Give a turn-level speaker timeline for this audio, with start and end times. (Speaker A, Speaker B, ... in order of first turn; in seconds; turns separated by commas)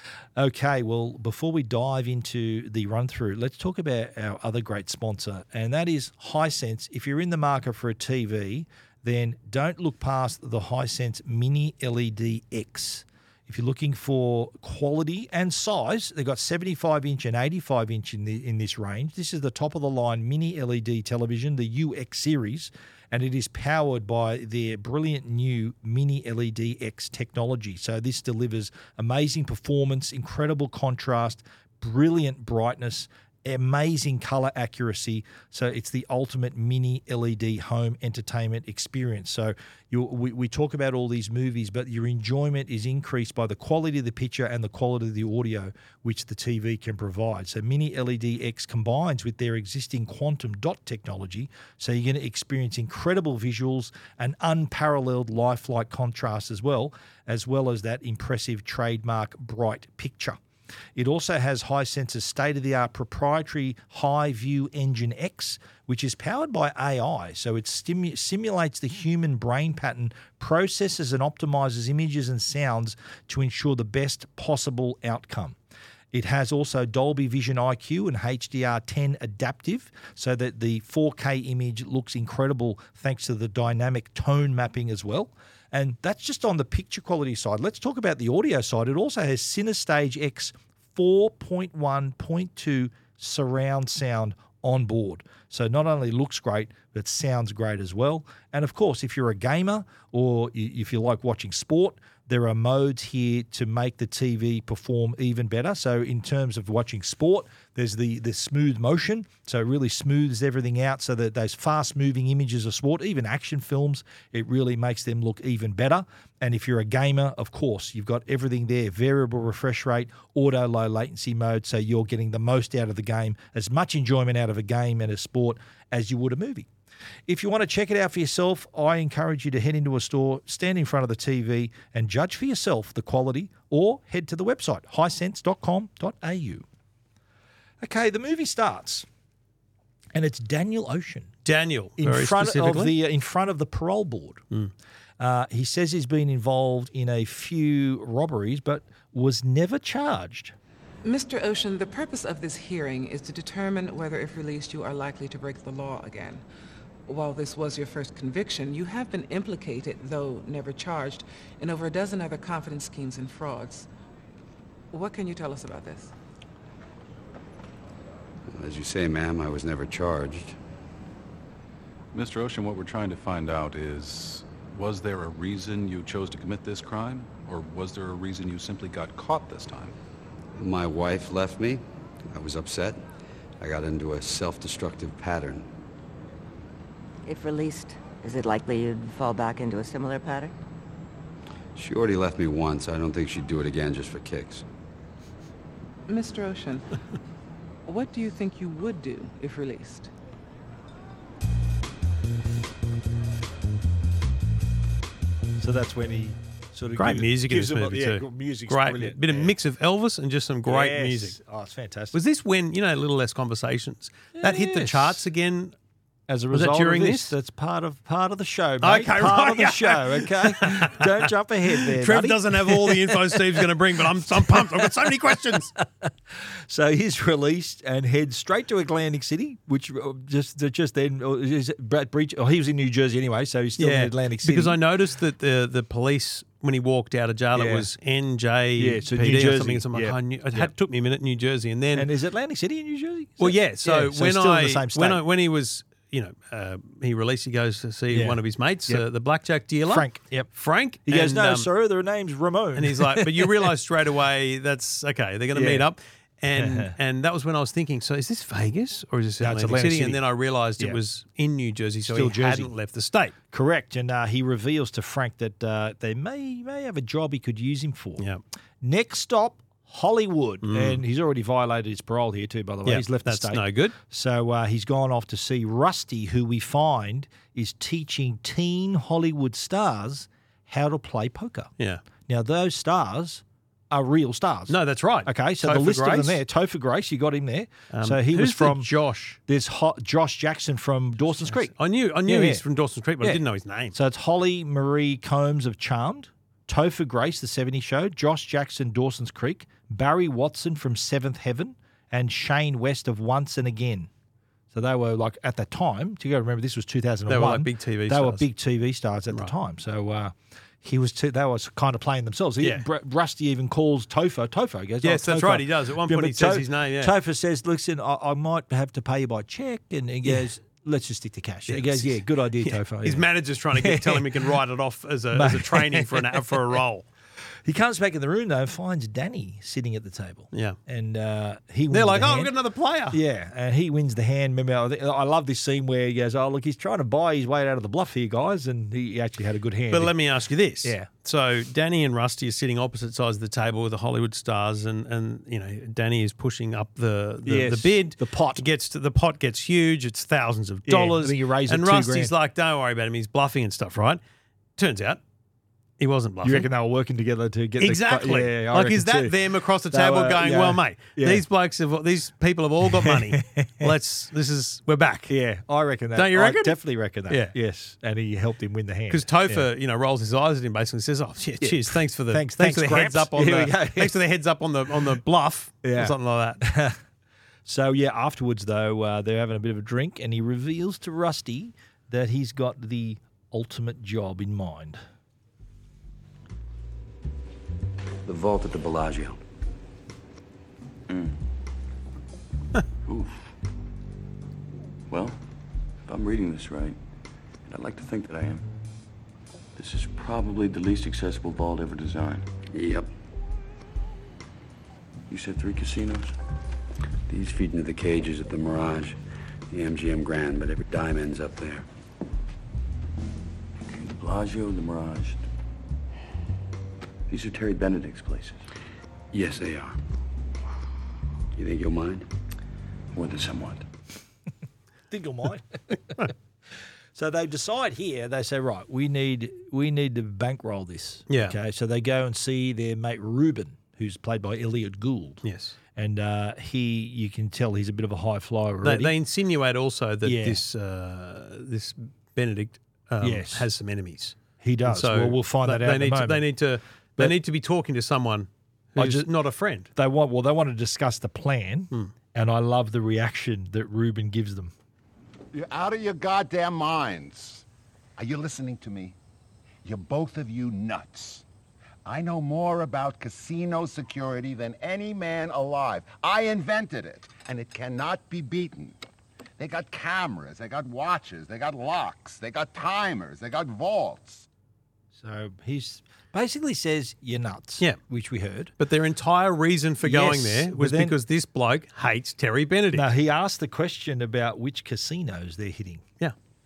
Speaker A: 0.4-60.4, Speaker A: 61.0-75.6, Speaker A: 76.1-126.7, Speaker A: 127.3-136.7, Speaker A: 137.8-139.1, Speaker A: 140.1-141.3, Speaker B: 141.4-142.9, Speaker A: 142.0-144.4, Speaker A: 145.2-150.6, Speaker C: 151.0-156.4, Speaker C: 157.1-163.9, Speaker C: 164.9-166.1, Speaker D: 168.5-170.6, Speaker E: 172.1-179.9, Speaker D: 180.6-183.0, Speaker D: 183.6-185.7, Speaker F: 187.3-190.5, Speaker D: 191.8-194.7, Speaker C: 196.1-196.9, Speaker C: 197.9-200.1, Speaker A: 205.6-209.5, Speaker B: 207.0-211.4, Speaker A: 210.7-212.2, Speaker B: 212.1-215.7, Speaker A: 214.4-215.2, Speaker A: 216.3-234.8, Speaker B: 216.5-217.3, Speaker B: 218.8-221.1, Speaker B: 221.8-225.7, Speaker B: 233.8-242.1, Speaker A: 237.6-237.9, Speaker A: 238.8-240.7, Speaker A: 241.9-245.2, Speaker B: 243.4-251.7, Speaker A: 248.1-249.1, Speaker A: 249.9-250.5, Speaker A: 251.1-253.7, Speaker B: 252.8-263.4, Speaker A: 255.5-255.9, Speaker A: 256.6-256.9, Speaker A: 259.4-260.2, Speaker A: 262.1-262.7, Speaker A: 263.5-268.3, Speaker A: 268.8-281.7, Speaker B: 270.6-271.0, Speaker B: 272.9-273.9, Speaker A: 282.3-288.9, Speaker B: 284.7-286.4, Speaker B: 287.9-289.4, Speaker A: 289.5-291.7, Speaker B: 291.2-293.9, Speaker A: 292.2-292.6, Speaker A: 293.9-304.1, Speaker A: 304.7-324.5, Speaker B: 307.3-308.5, Speaker B: 312.6-312.9, Speaker B: 315.0-317.1, Speaker B: 321.7-327.1, Speaker A: 325.3-326.8, Speaker A: 327.6-332.5, Speaker B: 331.9-333.2, Speaker A: 333.1-340.1, Speaker B: 339.9-354.2, Speaker A: 340.8-341.1, Speaker A: 347.4-348.6, Speaker A: 350.9-352.4, Speaker B: 354.8-355.2, Speaker B: 356.0-356.7, Speaker A: 356.4-359.4, Speaker B: 357.8-365.3, Speaker A: 359.9-361.4, Speaker A: 362.9-363.9, Speaker A: 365.3-369.7, Speaker B: 366.2-366.8, Speaker B: 367.3-367.5, Speaker B: 369.1-376.6, Speaker A: 371.6-374.2, Speaker A: 375.8-377.0, Speaker A: 377.6-385.0, Speaker D: 388.2-389.4, Speaker G: 391.1-391.4, Speaker G: 393.1-393.5, Speaker G: 395.1-395.4, Speaker G: 396.1-397.0, Speaker G: 397.7-398.7, Speaker G: 399.8-402.5, Speaker D: 402.7-403.1, Speaker G: 405.3-406.4, Speaker D: 407.3-409.2, Speaker D: 409.7-411.9, Speaker G: 414.0-415.4, Speaker G: 417.3-418.6, Speaker D: 419.3-420.0, Speaker D: 421.6-422.3, Speaker G: 423.1-423.9, Speaker A: 425.1-425.8, Speaker A: 427.1-435.4, Speaker B: 431.3-431.6, Speaker B: 435.4-435.8, Speaker A: 435.9-439.1, Speaker B: 438.8-449.9, Speaker A: 440.2-440.6, Speaker A: 443.2-443.7, Speaker A: 444.6-446.5, Speaker A: 449.0-449.3, Speaker A: 449.9-454.7, Speaker H: 455.5-457.6, Speaker H: 458.2-459.2, Speaker H: 459.8-461.4, Speaker H: 462.1-469.0, Speaker H: 469.6-474.5, Speaker A: 475.1-478.7, Speaker B: 478.8-483.1, Speaker A: 480.0-481.2, Speaker A: 482.9-486.1